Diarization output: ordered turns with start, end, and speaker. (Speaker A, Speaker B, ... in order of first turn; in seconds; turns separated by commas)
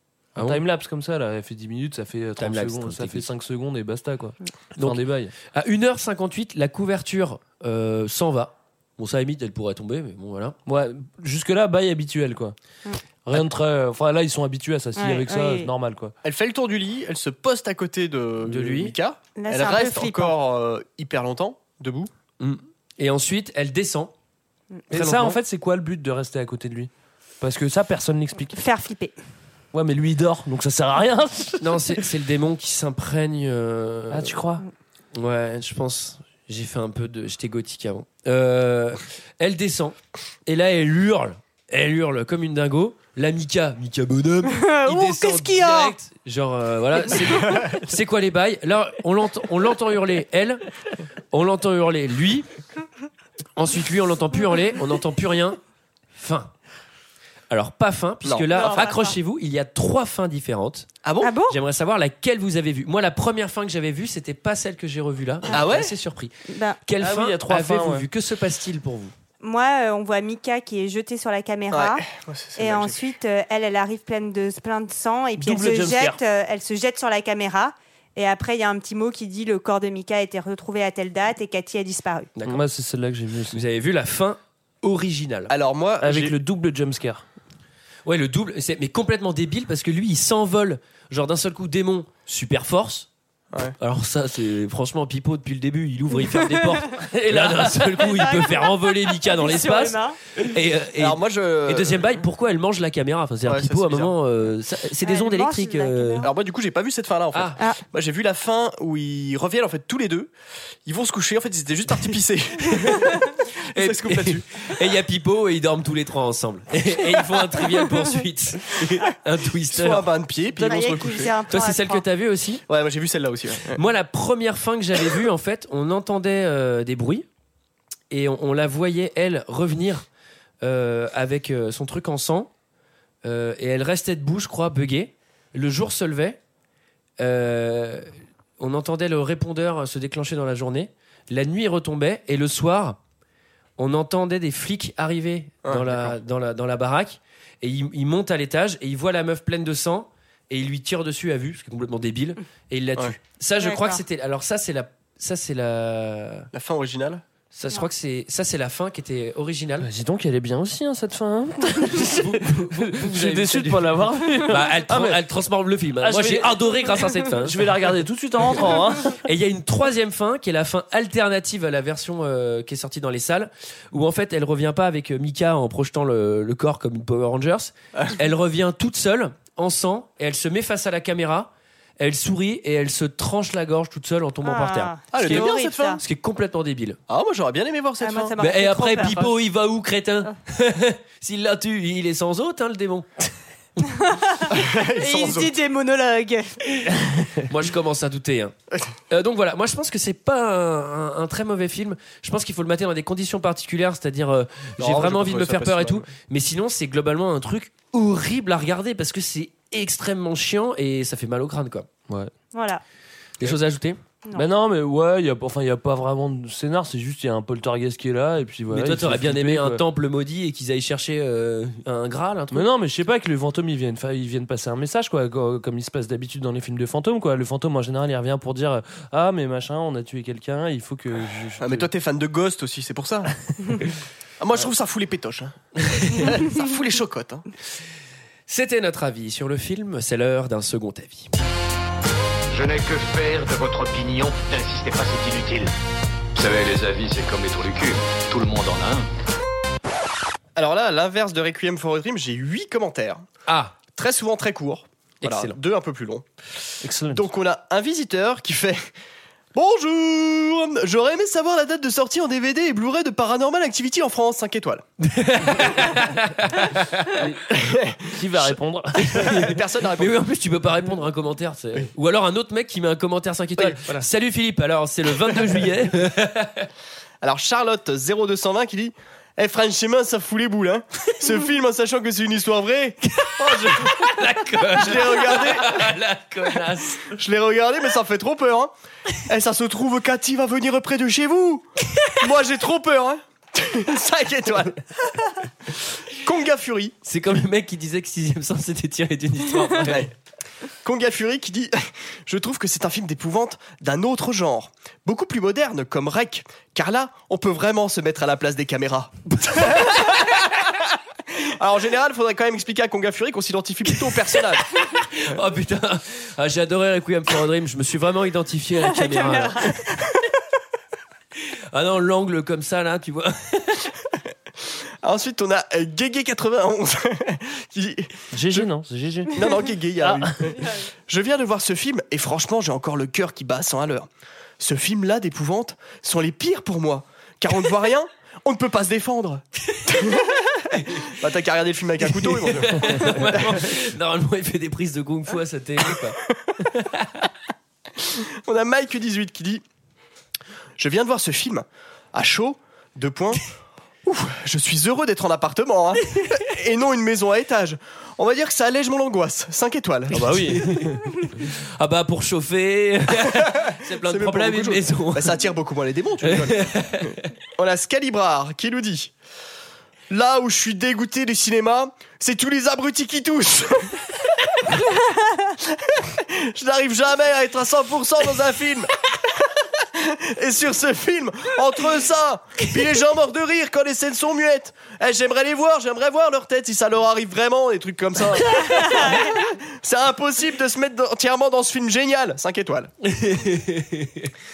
Speaker A: 0.3-0.6, Speaker B: 0.4-5.3, Speaker A: 2.4-3.3, Speaker A: 4.8-10.6, Speaker B: 10.7-12.6, Speaker B: 13.2-16.1, Speaker C: 15.0-15.7, Speaker D: 16.2-22.1, Speaker B: 18.5-18.9, Speaker C: 19.4-20.4, Speaker A: 22.4-24.1, Speaker B: 24.9-26.9, Speaker A: 24.9-25.4, Speaker B: 27.4-28.6, Speaker C: 28.5-29.1, Speaker B: 29.7-31.8, Speaker A: 31.6-34.4, Speaker B: 34.1-34.6, Speaker A: 35.1-40.0, Speaker A: 40.5-50.7, Speaker C: 44.5-45.9, Speaker A: 51.3-52.5, Speaker A: 53.6-55.6, Speaker A: 56.2-56.5, Speaker A: 57.5-60.9, Speaker C: 58.5-59.2, Speaker D: 61.0-61.3, Speaker C: 61.2-61.6, Speaker A: 61.5-69.1, Speaker D: 65.5-65.9, Speaker C: 66.5-66.8, Speaker B: 67.0-68.1, Speaker C: 69.4-72.0, Speaker D: 71.7-73.0, Speaker C: 72.6-82.3, Speaker B: 75.4-76.2, Speaker A: 82.4-82.6, Speaker B: 82.5-83.6, Speaker A: 83.5-85.5, Speaker D: 85.5-86.3, Speaker B: 86.0-87.2, Speaker A: 88.0-93.1, Speaker A: 93.8-106.3, Speaker B: 97.0-98.4, Speaker C: 98.3-98.7, Speaker C: 99.2-100.2, Speaker D: 101.0-102.1, Speaker D: 103.5-104.1, Speaker C: 105.0-106.3, Speaker D: 106.2-110.3, Speaker A: 107.3-107.6, Speaker D: 110.9-114.4, Speaker A: 113.7-120.1, Speaker D: 119.7-121.3, Speaker C: 120.6-122.0, Speaker A: 121.5-122.6, Speaker D: 122.7-123.8, Speaker A: 123.7-127.3, Speaker A: 128.1-130.0, Speaker A: 130.6-132.5, Speaker A: 133.2-136.4, Speaker A: 137.2-143.0, Speaker A: 143.8-156.5, Speaker D: 145.7-146.2, Speaker C: 153.6-154.0, Speaker D: 156.5-157.2, Speaker A: 157.5-159.9, Speaker B: 159.8-165.2, Speaker A: 162.0-167.7, Speaker B: 166.0-169.2, Speaker A: 169.1-187.0, Speaker C: 184.4-186.0, Speaker D: 185.1-186.0, Speaker D: 187.1-188.3, Speaker C: 188.0-189.3, Speaker A: 188.4-193.3, Speaker C: 194.0-196.6, Speaker D: 194.5-195.6, Speaker A: 196.8-198.5, Speaker A: 199.1-211.9, Speaker D: 204.8-206.1, Speaker C: 212.5-212.8, Speaker A: 213.4-214.0, Speaker B: 214.3-219.8, Speaker A: 218.7-222.7, Speaker B: 222.5-231.9, Speaker D: 231.6-237.5, Speaker A: 238.5-241.3, Speaker E: 242.5-245.7, Speaker E: 246.3-249.1, Speaker D: 250.6-253.2, Speaker A: 253.5-253.8, Speaker D: 253.9-256.3, Speaker A: 255.2-255.6, Speaker B: 256.8-257.2, Speaker D: 257.1-258.8, Speaker D: 259.5-264.8, Speaker A: 265.0-267.2, Speaker B: 267.2-267.4, Speaker D: 267.5-268.3, Speaker B: 268.1-269.4, Speaker A: 269.0-276.7, Speaker D: 269.1-270.2, Speaker D: 273.6-274.0, Speaker D: 277.2-284.1, Speaker A: 283.2-287.2, Speaker D: 284.7-285.9, Speaker D: 287.1-294.9, Speaker D: 296.1-296.9, Speaker A: 297.0-300.1, Speaker D: 299.9-300.1, Speaker D: 300.8-310.7, Speaker D: 311.3-314.7, Speaker A: 315.0-319.8, Speaker C: 318.8-319.9, Speaker A: 321.7-323.9, Speaker D: 325.0-328.7, Speaker B: 328.3-329.4, Speaker D: 329.3-334.1, Speaker B: 330.0-330.4, Speaker D: 334.6-343.8, Speaker A: 342.1-347.2, Speaker D: 348.0-349.6, Speaker D: 350.8-353.5, Speaker D: 354.1-360.6, Speaker B: 360.1-361.2, Speaker A: 360.5-365.5, Speaker D: 363.3-369.1, Speaker A: 366.2-367.2, Speaker D: 370.1-374.0, Speaker D: 375.6-378.9, Speaker D: 379.8-392.9, Speaker A: 393.1-394.3